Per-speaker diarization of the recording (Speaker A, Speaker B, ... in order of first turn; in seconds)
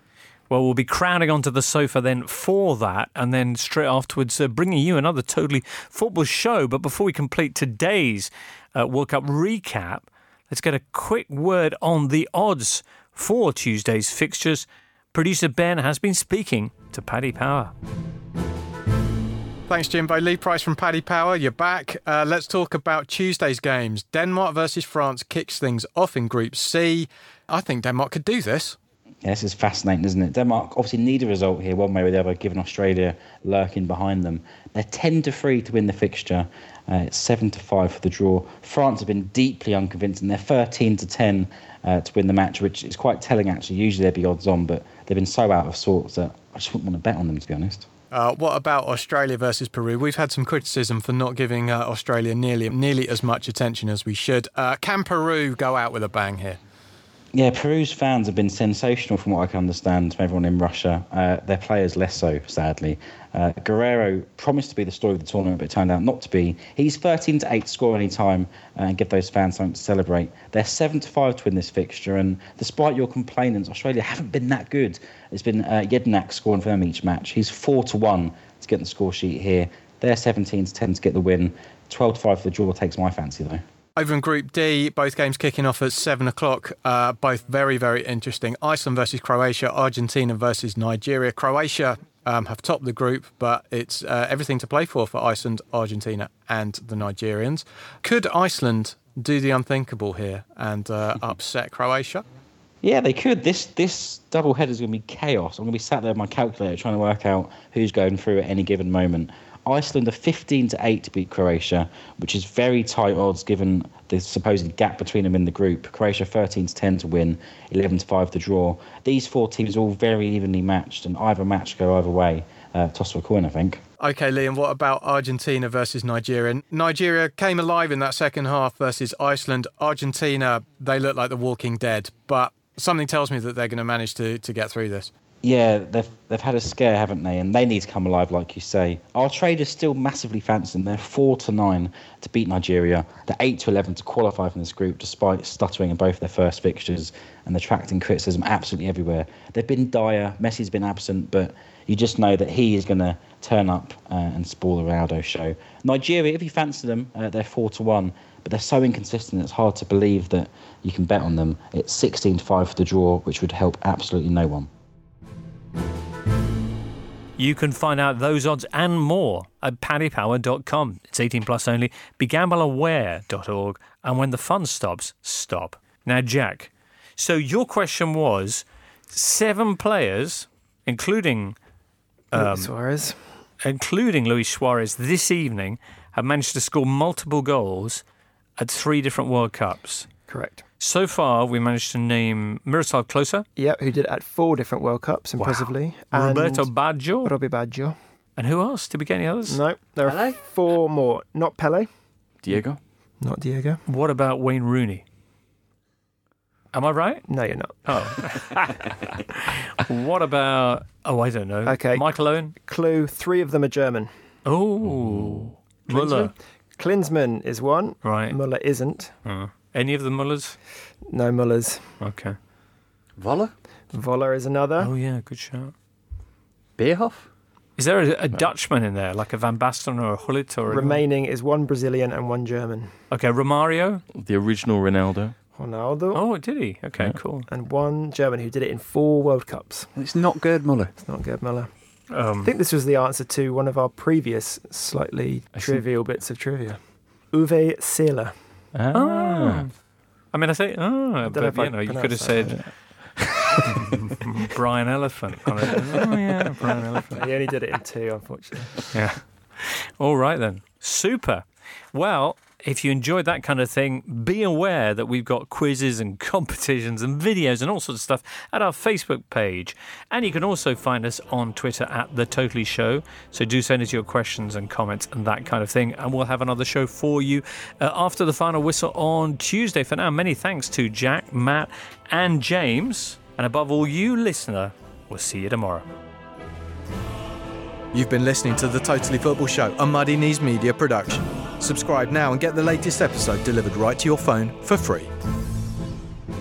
Speaker A: 0.5-17.7, 167.4-181.6, 182.3-182.7, 183.6-188.0, 188.6-190.1, 190.8-193.4, 195.4-197.3, 198.4-199.6, 203.9-205.0, 206.7-207.3, 207.8-208.9, 209.8-212.5, 214.4-216.3, 218.0-218.3, 219.2-220.6, 222.0-222.3, 224.8-225.7, 227.8-231.0, 233.1-234.0, 236.1-237.5, 242.1-242.5, 248.9-249.7, 250.3-257.2, 258.9-285.9
Speaker B: 19.7-28.8, 48.1-56.6, 84.0-102.2, 124.0-135.1, 287.9-295.1
Speaker C: 29.2-47.9, 57.3-83.6, 102.8-123.8, 135.4-164.7
Speaker D: 182.3-183.2, 190.3-190.6, 193.6-196.7, 197.2-197.9, 199.5-201.9, 203.2-203.8, 207.3-207.7, 211.7-214.1, 215.9-219.1, 221.1-221.9, 223.9-224.9, 230.7-232.9, 235.6-236.2, 237.5-239.9, 241.0-241.7, 242.4-246.8, 247.3-248.3, 251.3-252.8, 253.6-253.9, 257.1-259.0
Speaker E: 200.0-200.4, 223.2-223.5, 226.8-227.2, 239.9-240.9
Speaker F: 202.4-202.8, 214.9-215.5, 234.1-235.3, 245.5-245.8, 248.7-249.6